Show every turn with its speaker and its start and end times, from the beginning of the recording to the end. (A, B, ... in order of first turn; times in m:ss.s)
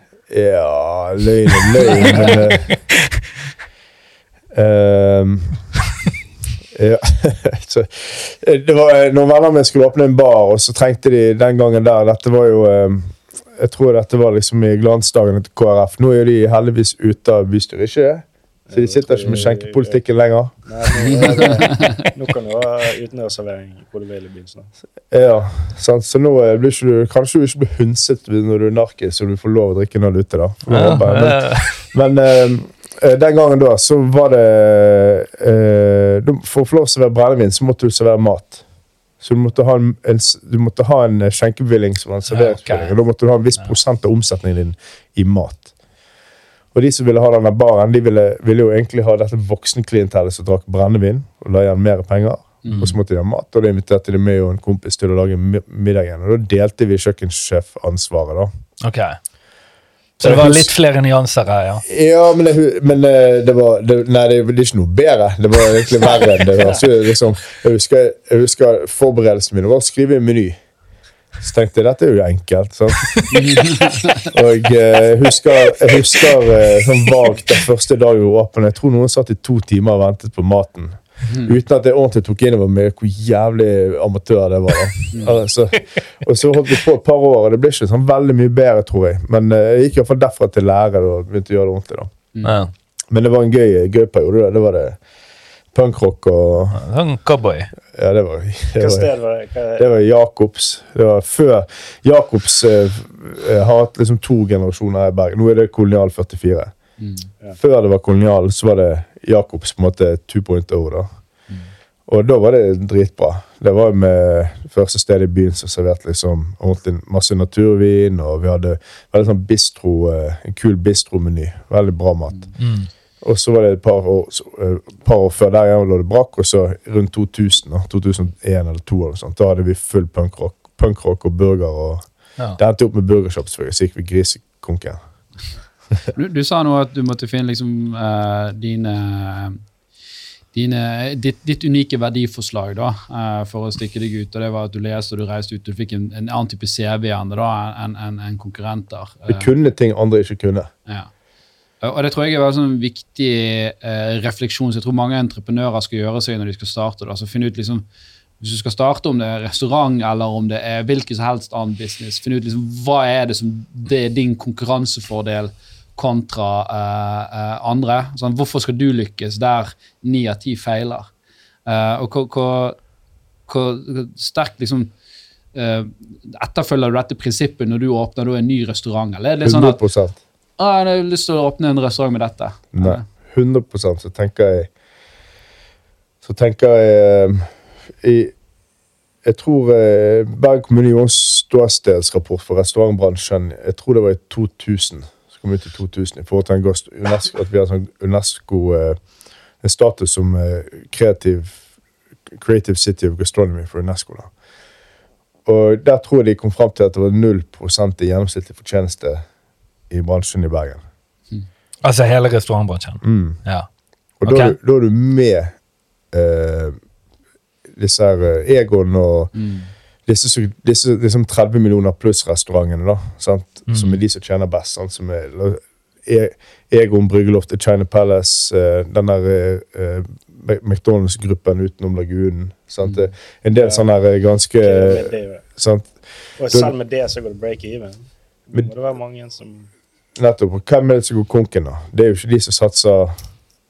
0:00.3-0:02.7 A
0:01.8-0:02.6 B
0:04.5-0:05.6 A
0:06.7-0:20.5 A
0:18.7-0:20.0 C
0:20.6-0:24.7 C
0:21.0-0:21.9 D
0:25.1-0:38.6 A
0:30.7-0:31.8 B
0:39.2-0:45.7 A
0:42.3-0:42.9 B
0:46.7-0:58.5 A
0:52.6-0:52.9 D
0:58.8-0:59.2 B
1:00.2-1:01.8 B
1:00.2-1:00.7 A
1:01.8-1:10.6 A
1:11.4-1:13.2 A
1:13.3-1:14.3 D
1:14.3-1:32.1 A
1:21.3-1:21.5 D
1:32.4-1:32.7 B
1:33.1-1:35.0 A
1:35.7-1:36.8 A
1:36.7-1:37.7 B
1:37.9-1:39.1 A
1:38.8-1:39.8 C
1:39.8-1:46.7 A
1:47.0-1:47.2 D
1:47.6-1:51.1 A
1:52.1-2:02.5 A
2:02.6-2:02.9 B
2:03.2-2:12.0 A
2:12.6-2:15.0 A
2:16.1-2:19.6 D
2:20.5-2:29.5 D
2:29.3-2:30.7 A
2:31.8-2:37.8 D
2:38.4-2:51.1 D
2:51.6-2:52.8 D
2:53.5-2:54.9 D
2:55.5-2:59.8 D
2:59.4-3:00.2 A
3:00.6-3:03.0 D
3:02.7-3:04.7 A
3:06.2-3:07.5 A
3:08.0-3:08.3 A
3:09.2-3:19.0 A
3:19.6-3:21.6 A
3:22.3-3:24.3 A
3:25.4-3:29.2 A
3:29.9-3:30.8 A
3:31.8-3:33.7 B
3:33.0-3:33.4 A
3:34.2-3:35.5 A
3:34.2-3:34.6 B
3:36.1-3:36.8 A
3:37.8-3:39.3 A
3:39.3-3:39.7 D
3:40.0-3:55.9 A
3:43.7-3:44.0 B
3:53.5-3:53.8 C
3:54.6-3:55.4 C
3:56.4-3:59.7 C
4:00.2-4:03.1 A